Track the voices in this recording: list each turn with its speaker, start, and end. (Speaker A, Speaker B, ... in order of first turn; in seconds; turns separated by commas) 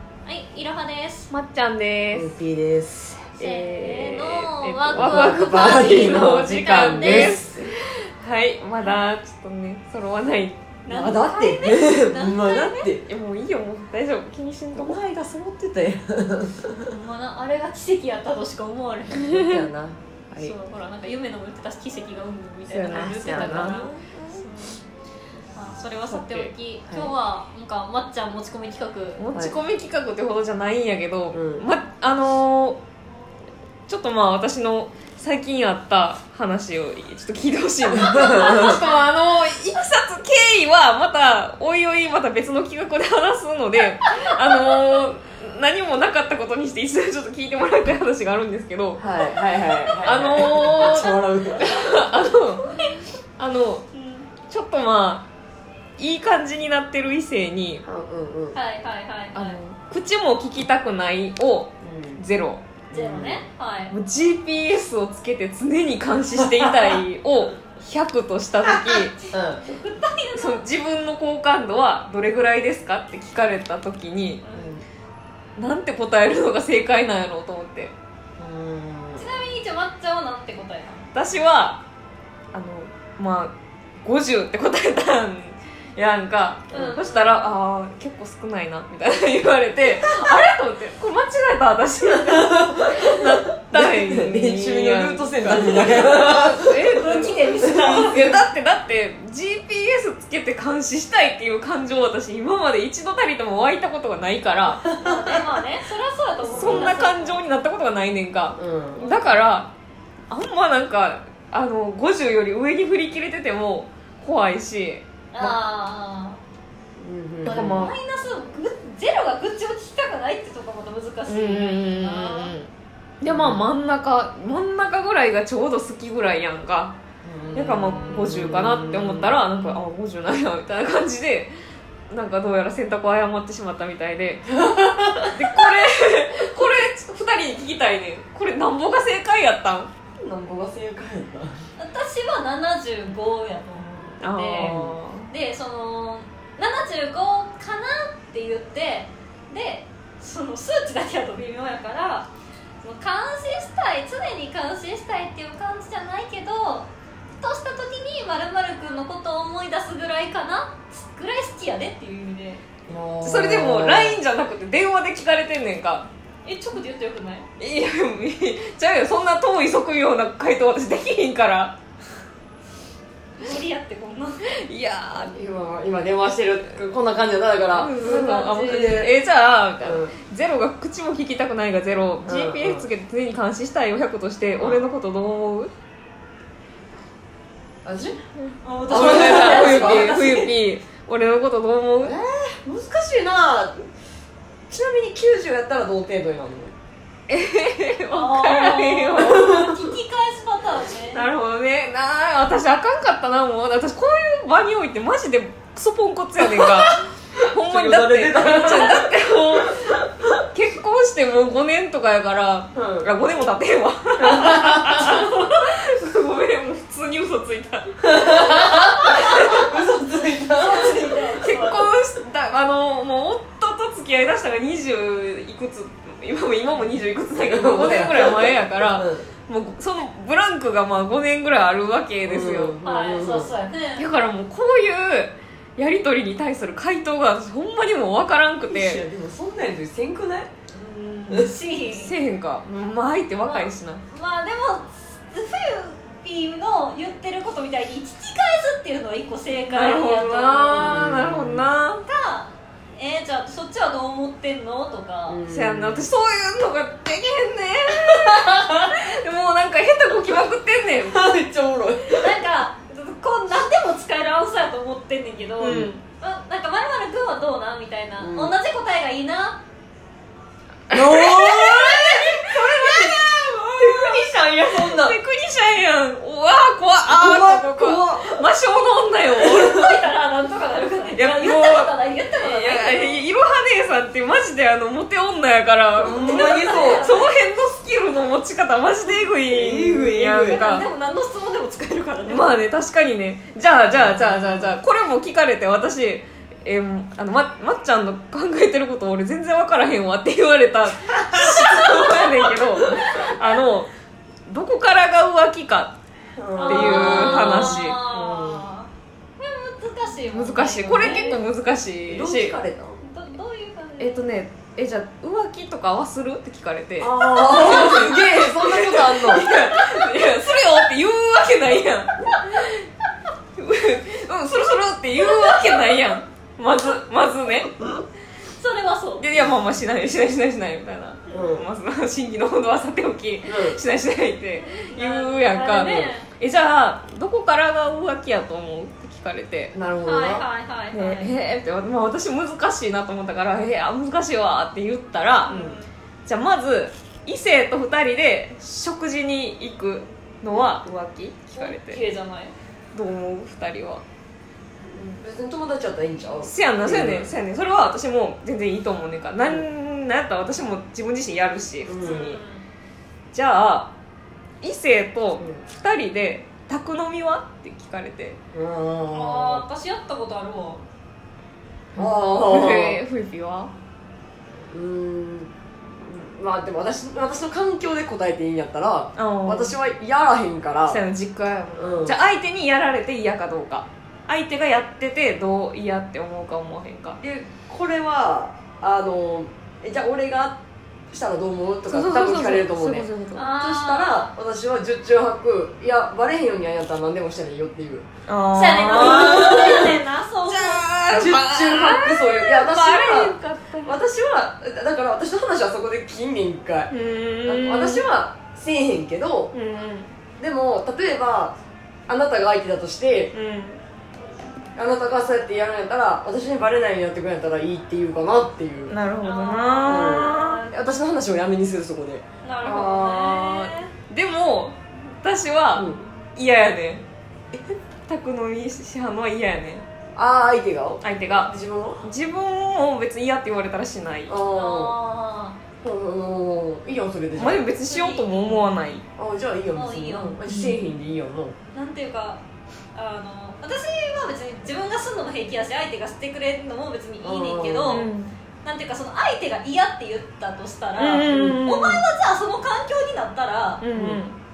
Speaker A: 0.2-1.3, Speaker B: 1.3-2.4, Speaker C: 2.1-3.4, Speaker B: 3.4-10.7, Speaker A: 3.4-7.4, Speaker C: 4.9-7.7, Speaker A: 10.8-12.9, Speaker C: 10.9-13.1, Speaker B: 13.1-15.0, Speaker C: 14.7-16.9, Speaker A: 16.9-19.5, Speaker C: 19.2-20.6, Speaker B: 19.3-19.6, Speaker A: 20.4-24.8, Speaker B: 22.7-24.4, Speaker C: 22.9-23.8, Speaker A: 25.6-29.2, Speaker B: 26.1-26.5, Speaker B: 29.2-32.8, Speaker C: 31.3-31.7, Speaker B: 33.9-49.0, Speaker C: 37.9-38.8, Speaker A: 38.0-39.0, Speaker C: 49.0-51.7, Speaker B: 50.0-53.9, Speaker A: 51.6-52.0, Speaker A: 52.6-53.0, Speaker A: 54.0-54.3, Speaker B: 54.5-55.3, Speaker B: 56.0-57.8, Speaker C: 57.9-58.6, Speaker A: 58.5-59.6, Speaker B: 59.4-62.7, Speaker C: 61.8-62.2, Speaker C: 62.9-63.5, Speaker A: 62.9-63.9, Speaker B: 63.9-69.2, Speaker C: 66.3-67.0, Speaker A: 68.9-70.6, Speaker C: 69.3-69.6, Speaker B: 70.4-74.4, Speaker A: 74.4-74.7, Speaker C: 74.5-74.8, Speaker B: 75.6-77.9, Speaker C: 78.4-79.5, Speaker A: 79.2-81.1, Speaker B: 81.1-81.8, Speaker B: 82.5-105.0, Speaker A: 86.7-87.5, Speaker C: 92.1-96.7, Speaker A: 95.7-98.4, Speaker C: 97.6-98.3, Speaker C: 104.9-105.4, Speaker A: 105.0-107.4, Speaker C: 106.5-107.0, Speaker B: 106.5-109.7, Speaker C: 108.6-109.1, Speaker A: 109.0-109.4, Speaker B: 110.3-115.1, Speaker A: 115.3-116.4, Speaker C: 117.0-117.9, Speaker A: 117.5-122.5, Speaker B: 117.5-118.0, Speaker B: 121.3-127.0, Speaker C: 123.2-123.7, Speaker C: 127.2-129.4, Speaker B: 127.5-131.5, Speaker B: 132.1-134.5, Speaker C: 134.5-135.7, Speaker B: 135.3-139.9, Speaker C: 140.2-141.7, Speaker A: 141.8-152.3, Speaker B: 144.2-145.3, Speaker C: 144.6-145.0, Speaker A: 152.8-162.6, Speaker C: 162.9-164.2, Speaker B: 163.2-166.1, Speaker A: 166.4-167.5, Speaker B: 167.6-171.8, Speaker A: 173.4-174.5, Speaker B: 174.5-175.3, Speaker C: 175.1-179.1, Speaker B: 177.7-185.7, Speaker A: 178.0-179.0, Speaker C: 179.8-180.1, Speaker C: 182.2-182.9, Speaker C: 184.6-184.8, Speaker C: 187.8-188.2, Speaker A: 188.6-190.5, Speaker C: 188.9-190.3, Speaker B: 188.9-192.2, Speaker C: 192.0-193.9, Speaker C: 194.7-196.8, Speaker B: 197.3-199.8, Speaker A: 198.1-201.3, Speaker C: 199.2-199.7, Speaker B: 201.1-219.7, Speaker C: 206.4-210.1, Speaker C: 212.7-213.1, Speaker C: 214.2-215.3, Speaker C: 218.0-221.2, Speaker A: 218.6-219.7, Speaker A: 220.5-221.8, Speaker B: 221.4-232.8, Speaker C: 227.4-229.3, Speaker C: 232.2-233.6, Speaker A: 232.8-234.1, Speaker B: 234.0-239.1, Speaker C: 238.7-240.5, Speaker A: 240.8-242.1, Speaker B: 241.9-244.0, Speaker A: 243.4-251.1, Speaker B: 249.7-252.0, Speaker C: 250.8-251.7, Speaker A: 252.1-255.4, Speaker C: 255.3-256.1, Speaker B: 255.5-261.3, Speaker C: 261.1-262.4, Speaker A: 262.1-269.6, Speaker B: 265.6-266.0, Speaker C: 265.6-265.9, Speaker C: 268.2-268.6, Speaker B: 270.9-272.0, Speaker C: 270.9-275.2, Speaker A: 271.2-274.2, Speaker B: 274.9-279.9, Speaker C: 277.1-278.4, Speaker A: 279.4-283.2, Speaker C: 279.5-279.9, Speaker B: 281.1-290.9, Speaker C: 286.0-287.1, Speaker A: 286.0-287.4, Speaker C: 289.5-290.6, Speaker A: 290.4-292.5, Speaker B: 292.3-303.9, Speaker C: 293.9-294.8, Speaker C: 301.3-302.8, Speaker B: 304.5-306.0, Speaker C: 306.4-308.7, Speaker A: 306.6-311.4, Speaker B: 306.7-308.0, Speaker B: 310.3-312.6, Speaker C: 312.1-313.0, Speaker A: 313.0-314.2, Speaker B: 314.0-322.8, Speaker C: 317.0-319.5, Speaker A: 317.4-318.1, Speaker A: 319.5-319.9, Speaker B: 323.6-327.8, Speaker A: 325.2-326.0, Speaker A: 328.6-329.2, Speaker B: 329.2-339.7, Speaker C: 331.3-331.7, Speaker C: 333.5-333.8, Speaker A: 334.6-336.3, Speaker C: 335.8-336.1, Speaker C: 339.7-340.4, Speaker A: 340.1-341.3, Speaker B: 340.9-345.6, Speaker A: 345.5-345.9, Speaker C: 345.5-345.8, Speaker B: 346.3-352.0, Speaker A: 351.6-352.6, Speaker B: 352.9-354.0, Speaker C: 354.8-357.3, Speaker B: 356.4-362.4, Speaker C: 361.9-362.4, Speaker A: 362.0-362.6, Speaker B: 363.3-363.9, Speaker B: 364.6-368.4, Speaker C: 368.5-369.6, Speaker A: 369.1-370.9, Speaker C: 371.9-373.0, Speaker B: 372.0-373.7, Speaker C: 374.7-381.0, Speaker B: 379.2-379.8, Speaker B: 380.9-387.2, Speaker C: 381.8-382.2, Speaker C: 387.2-398.1, Speaker B: 391.9-393.5, Speaker A: 393.3-394.3, Speaker B: 398.3-404.0, Speaker A: 398.5-400.9, Speaker C: 398.9-400.0, Speaker C: 401.1-406.9, Speaker B: 406.9-408.1, Speaker C: 407.4-409.5, Speaker B: 409.5-410.1, Speaker C: 410.4-411.6, Speaker C: 412.1-413.3, Speaker B: 413.3-413.8, Speaker C: 414.8-418.9, Speaker B: 418.9-420.6, Speaker A: 419.2-420.8, Speaker C: 419.9-422.2, Speaker A: 422.4-423.9, Speaker B: 422.6-427.1, Speaker C: 425.8-426.1, Speaker B: 428.1-429.9, Speaker C: 430.2-432.1, Speaker B: 431.0-434.4, Speaker C: 434.3-434.9, Speaker A: 434.5-435.6, Speaker C: 435.8-437.7, Speaker B: 437.4-439.1, Speaker A: 437.8-438.7, Speaker C: 439.2-441.6, Speaker A: 439.8-440.4, Speaker B: 440.5-440.9, Speaker A: 441.7-442.4, Speaker A: 442.9-448.1, Speaker C: 447.2-448.0, Speaker B: 447.9-448.3, Speaker A: 448.6-453.8, Speaker B: 451.0-452.1, Speaker C: 451.3-451.6, Speaker B: 453.8-454.4, Speaker C: 453.9-454.2